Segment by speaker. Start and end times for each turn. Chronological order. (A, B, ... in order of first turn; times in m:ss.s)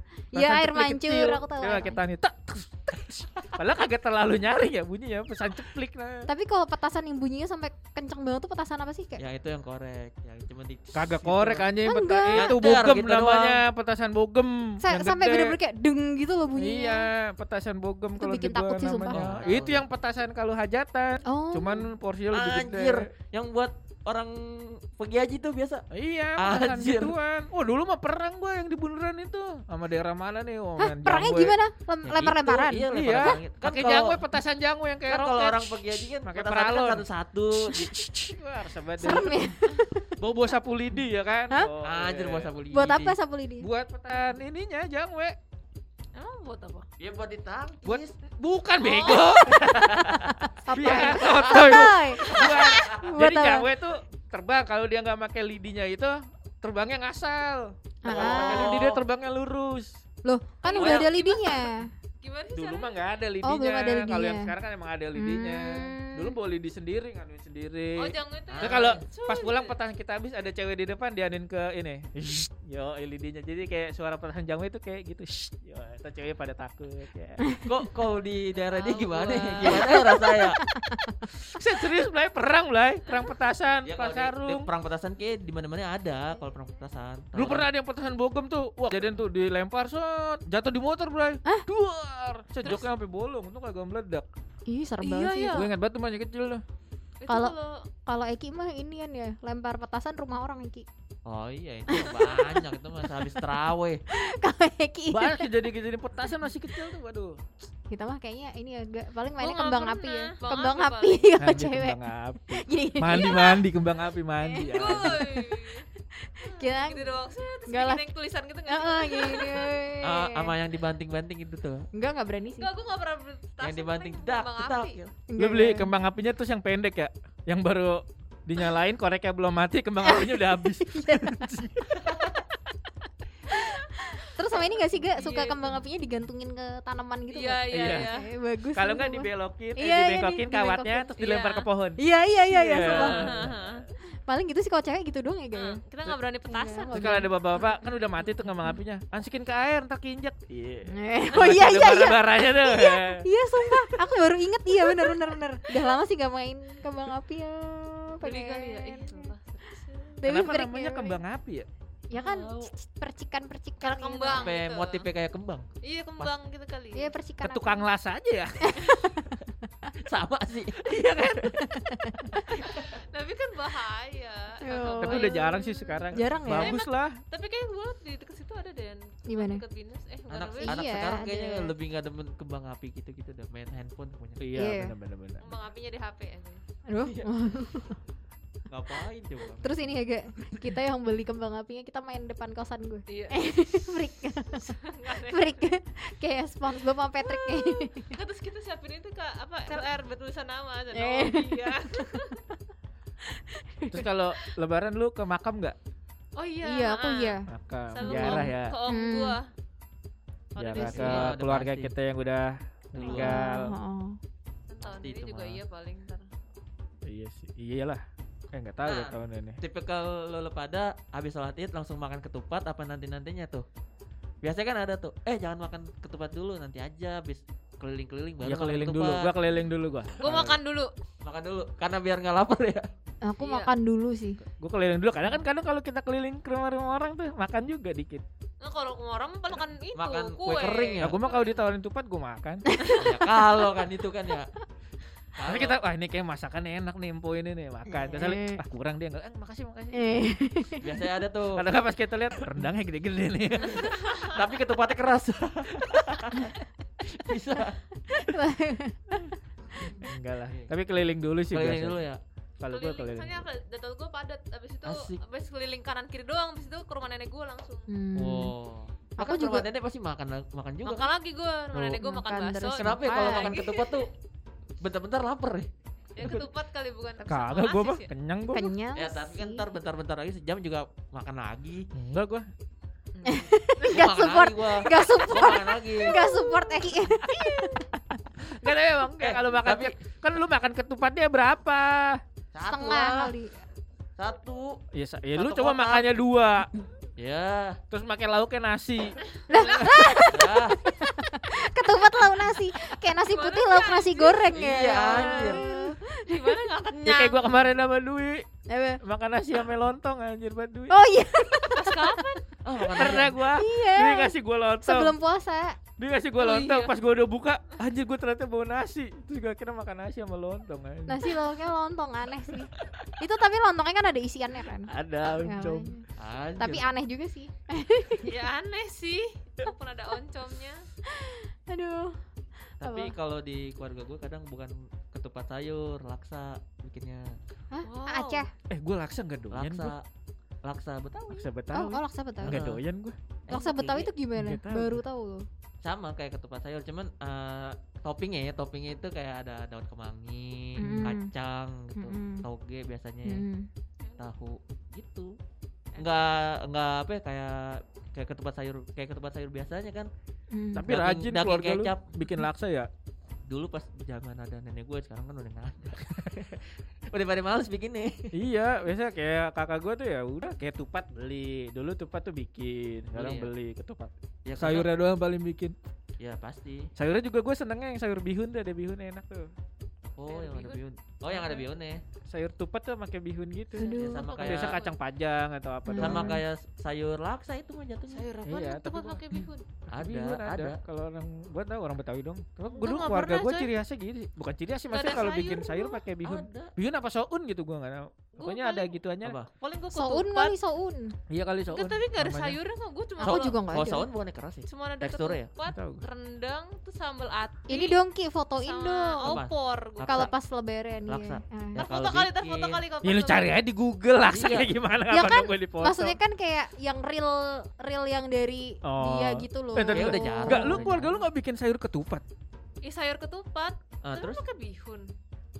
0:00.3-0:02.0 A
0:00.3-0:06.3 B
0:06.3-0:09.2 A
0:09.2-0:11.7 C
0:10.9-0:15.6 B
0:11.8-0:12.5 A
0:12.3-0:13.6 C
0:14.8-0:17.1 A
0:16.6-0:23.1 B
0:18.2-0:19.2 A
0:19.0-0:19.8 C
0:21.2-0:21.9 A
0:22.3-0:25.8 C
0:25.9-0:31.6 B
0:26.4-0:27.1 C
0:30.8-0:33.2 A
0:32.0-0:34.2 C
0:32.9-0:39.5 B
0:35.1-0:37.9 C
0:39.0-0:40.2 A
0:40.2-0:42.5 B
0:41.8-0:43.2 C
0:42.7-0:43.7 A
0:43.6-0:45.4 B
0:46.1-0:46.8 D
0:47.0-0:48.1 C
0:47.8-1:00.0 B
0:48.8-0:49.5 D
0:49.5-0:53.1 C
0:50.6-0:53.7 A
0:58.0-0:58.8 A
0:58.0-0:59.0 C
1:00.2-1:01.9 A
1:00.6-1:03.0 D
1:00.8-1:01.2 C
1:02.5-1:17.4 B
1:03.4-1:04.5 A
1:05.2-1:06.3 A
1:08.0-1:09.7 D
1:08.5-1:09.0 C
1:17.6-1:20.6 C
1:18.7-1:19.9 D
1:19.7-1:21.2 A
1:21.4-1:24.7 B
1:23.8-1:27.7 C
1:27.3-1:34.3 B
1:34.7-1:35.6 A
1:35.0-1:35.7 D
1:35.5-1:36.6 B
1:37.2-1:37.8 D
1:37.3-1:37.5 A
1:38.0-1:40.8 A
1:41.2-1:44.0 C
1:41.9-1:42.7 A
1:44.1-1:45.5 A
1:45.1-1:47.4 B
1:47.9-1:52.0 A
1:49.4-1:51.3 D
1:51.4-1:55.3 B
1:52.5-1:53.6 A
1:54.4-1:58.0 A
1:54.6-1:55.9 D
1:56.4-1:59.7 D
1:58.7-2:00.5 A
2:00.0-2:01.8 C
2:01.9-2:02.7 A
2:02.6-2:05.0 D
2:03.6-2:05.1 C
2:05.3-2:05.9 A
2:05.4-2:12.3 B
2:10.0-2:11.5 A
2:13.5-2:21.1 A
2:14.5-2:15.8 D
2:17.3-2:18.3 D
2:17.7-2:18.1 B
2:18.7-2:23.8 B
2:21.2-2:21.6 D
2:22.0-2:23.3 A
2:22.8-2:23.8 D
2:24.2-2:25.8 A
2:25.5-2:27.2 D
2:26.5-2:27.6 A
2:26.9-2:34.1 B
2:30.9-2:39.3 A
2:38.2-2:40.2 D
2:40.2-2:41.2 A
2:40.2-2:41.7 B
2:42.1-2:44.5 A
2:42.1-2:42.7 D
2:43.8-2:45.0 D
2:44.3-2:45.7 C
2:45.8-2:47.1 D
2:47.0-2:47.8 A
2:47.4-2:48.9 B
2:48.6-2:49.6 A
2:50.0-2:50.9 C
2:50.8-2:51.6 B
2:51.6-2:52.5 A
2:52.4-2:53.0 C
2:53.1-3:01.0 D
2:54.6-2:56.7 A
2:55.0-2:57.2 B
2:59.3-2:59.6 A
3:00.3-3:04.5 C
3:00.6-3:01.7 A
3:04.4-3:05.5 B
3:04.5-3:04.9 A
3:05.4-3:06.6 D
3:06.9-3:08.0 A
3:07.0-3:07.3 C
3:08.7-3:09.7 C
3:09.6-3:18.2 A
3:13.1-3:13.8 D
3:14.5-3:15.7 D
3:17.2-3:22.4 D
3:20.9-3:22.4 A
3:23.3-3:24.4 A
3:23.9-3:25.8 B
3:26.4-3:27.4 D
3:26.6-3:27.4 A
3:27.5-3:28.8 B
3:27.9-3:29.5 D
3:28.0-3:29.4 A
3:30.5-3:31.3 D
3:30.6-3:33.7 B
3:30.7-3:31.9 C
3:32.9-3:33.4 C
3:33.1-3:34.2 A
3:34.7-3:36.3 D
3:34.8-3:35.6 C
3:37.0-3:39.6 B
3:38.8-3:43.6 C
3:44.4-3:49.5 C
3:48.4-3:50.6 B
3:50.2-3:50.9 D
3:51.2-3:52.9 C
3:53.2-3:54.4 A
3:53.4-3:53.7 D
3:54.4-3:58.2 B
3:58.6-4:01.6 D
3:59.9-4:01.2 C
4:01.0-4:02.6 B
4:02.7-4:03.4 A
4:03.0-4:04.5 C
4:05.4-4:05.8 C
4:05.4-4:10.3 B
4:08.1-4:08.6 A
4:09.9-4:10.8 A
4:10.8-4:11.6 C
4:11.5-4:14.0 B
4:13.6-4:14.4 D
4:14.2-4:16.5 C
4:17.1-4:17.8 C
4:18.1-4:20.0 A
4:20.0-4:22.0 B
4:21.5-4:22.2 C
4:22.6-4:23.4 B
4:22.7-4:27.9 D
4:24.8-4:25.2 C
4:27.9-4:28.5 A
4:28.2-4:31.1 C
4:29.2-4:29.7 A
4:30.8-4:34.0 D
4:31.7-4:32.0 C
4:32.0-4:33.6 A
4:32.8-4:34.1 C
4:34.8-4:35.7 C
4:36.1-4:38.1 D
4:36.2-4:36.5 B
4:37.2-4:38.8 B
4:38.5-4:39.6 A
4:38.9-4:41.9 C
4:41.9-4:42.5 B
4:43.1-4:44.1 D
4:43.2-4:47.9 A
4:43.9-4:46.2 C
4:46.1-4:46.7 D
4:48.4-4:52.2 B
4:49.2-4:49.9 C
4:52.5-4:53.3 C
4:52.6-4:53.6 A
4:54.2-4:54.8 C
4:54.9-4:56.7 B
4:55.4-4:56.1 C
4:57.2-4:57.8 C
4:57.9-4:59.9 B
4:59.3-5:00.3 D
4:59.5-5:06.7 A
5:00.3-5:00.8 C
5:03.2-5:07.4 D
5:04.5-5:05.6 C
5:06.9-5:08.4 B
5:08.7-5:09.0 A
5:09.0-5:11.0 B
5:10.9-5:12.4 A
5:11.7-5:12.4 D
5:12.6-5:13.4 C
5:13.0-5:15.1 B
5:13.1-5:15.8 A
5:16.0-5:21.3 B
5:16.4-5:16.9 D
5:21.1-5:26.0 A
5:24.9-5:25.9 B
5:26.2-5:26.9 C
5:26.6-5:28.3 A
5:28.2-5:30.8 D
5:31.1-5:32.2 A
5:32.8-5:33.1 A
5:32.8-5:37.4 C
5:37.7-5:38.5 A
5:37.8-5:38.4 D
5:38.7-5:39.9 B
5:39.5-5:40.0 C
5:40.6-5:41.4 C
5:41.3-5:43.2 B
5:41.7-5:42.6 A
5:42.4-5:42.8 C
5:43.5-5:44.1 C
5:43.5-5:45.4 A
5:44.3-5:45.0 B
5:45.8-5:53.4 C
5:50.8-5:51.3 A
5:51.9-5:52.4 A
5:53.2-5:53.7 A
5:54.2-5:55.4 C
5:55.9-5:56.2 D
5:56.0-6:00.1 C
6:00.5-6:00.9 A
6:00.7-6:02.9 B
6:00.9-6:02.1 C
6:03.5-6:08.3 C
6:08.3-6:15.8 B
6:13.1-6:13.5 C
6:14.4-6:14.9 C
6:16.2-6:16.9 C
6:17.0-6:19.5 B
6:20.2-6:22.0 C
6:20.3-6:21.7 D
6:22.2-6:26.4 B
6:23.8-6:24.3 A
6:23.8-6:24.8 C
6:24.0-6:25.0 D
6:25.8-6:26.4 A
6:26.0-6:28.3 C
6:28.1-6:29.6 D
6:28.4-6:39.4 B
6:29.9-6:30.8 C
6:32.7-6:33.7 D
6:34.9-6:36.0 D
6:36.2-6:36.7 C
6:38.4-6:38.9 D
6:39.2-6:39.5 C
6:39.6-6:40.5 D
6:39.9-6:41.1 A
6:41.3-6:42.6 B
6:41.7-6:43.6 D
6:43.2-6:44.1 A
6:43.2-6:45.5 C
6:44.7-6:48.0 D
6:45.6-6:46.0 B
6:47.7-6:49.3 A
6:48.6-6:50.3 D
6:49.2-6:50.3 C
6:50.1-6:51.8 A
6:51.1-6:52.8 C
6:51.8-6:53.6 D
6:53.0-6:56.2 B
6:54.3-6:54.7 C
6:55.1-7:00.8 A
6:58.8-7:02.2 B
6:59.9-7:01.2 C
7:02.8-7:05.1 D
7:04.0-7:04.4 C